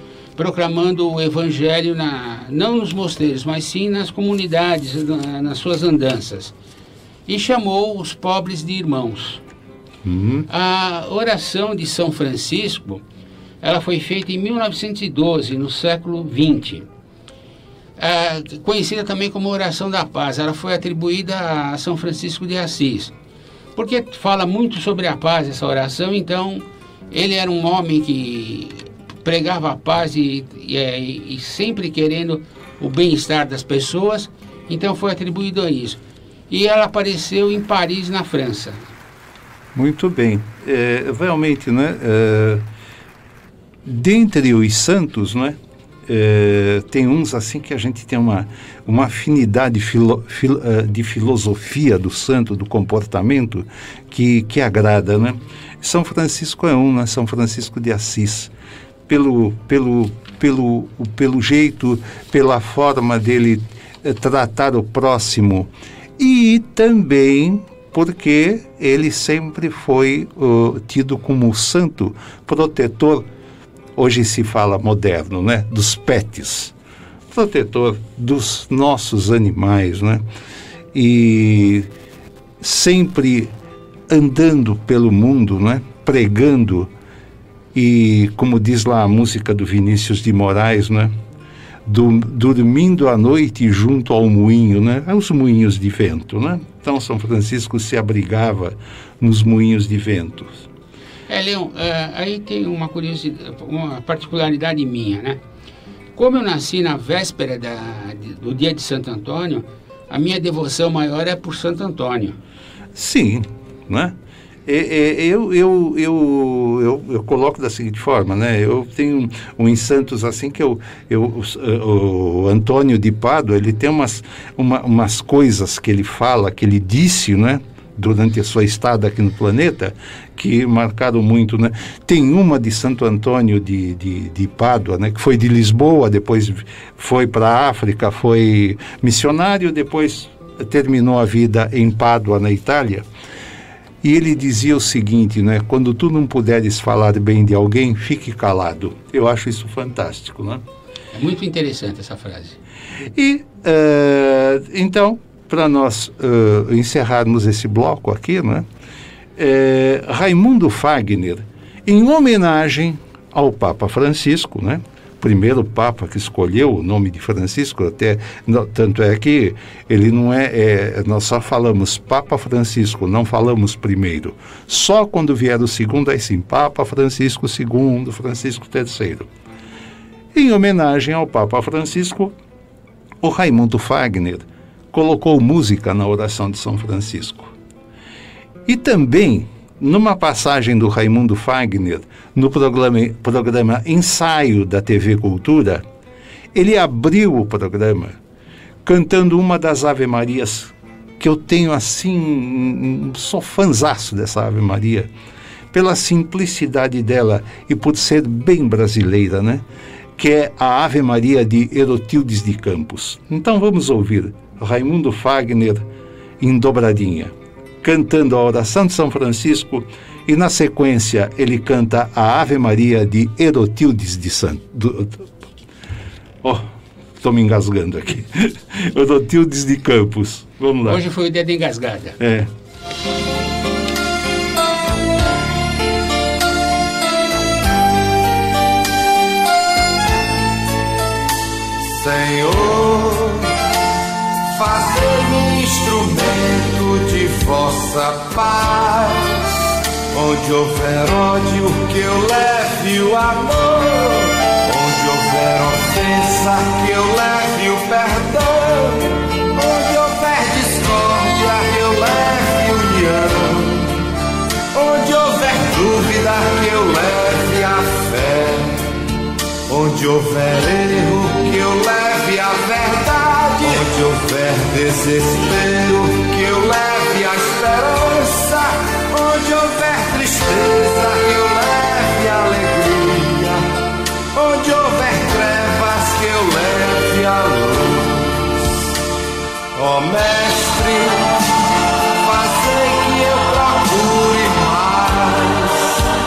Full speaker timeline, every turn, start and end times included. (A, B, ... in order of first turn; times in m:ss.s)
0:00.4-0:06.5 A
0:07.3-0:09.4 A
0:10.0-0:10.5 B
0:10.5-0:13.0 A
0:13.6-0:16.8 A
0:18.0-0:23.1 A
0:23.8-0:36.0 A
0:36.5-0:38.8 A
0:39.7-0:42.6 B
0:43.8-0:45.6 B
0:46.1-0:58.5 B
0:59.1-1:13.3 B
1:14.0-1:16.7 B
1:17.3-1:20.2 B
1:20.9-1:21.9 B
1:22.6-1:23.5 B
1:24.1-1:26.9 B
1:27.7-1:31.1 B
1:31.8-1:40.6 B
1:41.3-1:45.4 A
1:46.2-1:52.4 A
1:52.9-1:54.1 B
1:54.6-2:23.0 B
2:24.0-2:30.6 B
2:31.1-2:32.6 A
2:33.1-2:38.6 B
2:39.4-2:59.3 B
3:00.3-3:02.3 B
3:03.2-3:07.5 B
3:08.6-3:15.8 B
3:16.5-3:18.2 B
3:18.8-3:25.1 B
3:25.7-3:29.6 B
3:30.2-3:35.9 B
3:36.4-3:45.3 B
3:47.2-3:51.0 B
3:50.9-3:52.2 A
3:52.2-3:52.5 B
4:01.8-4:03.5 C
4:04.5-4:09.4 C
4:10.1-4:23.9 C
4:24.7-4:28.9 C
4:29.7-4:43.6 C
4:44.3-4:48.6 C
4:49.7-4:51.3 C
4:52.1-4:56.0 C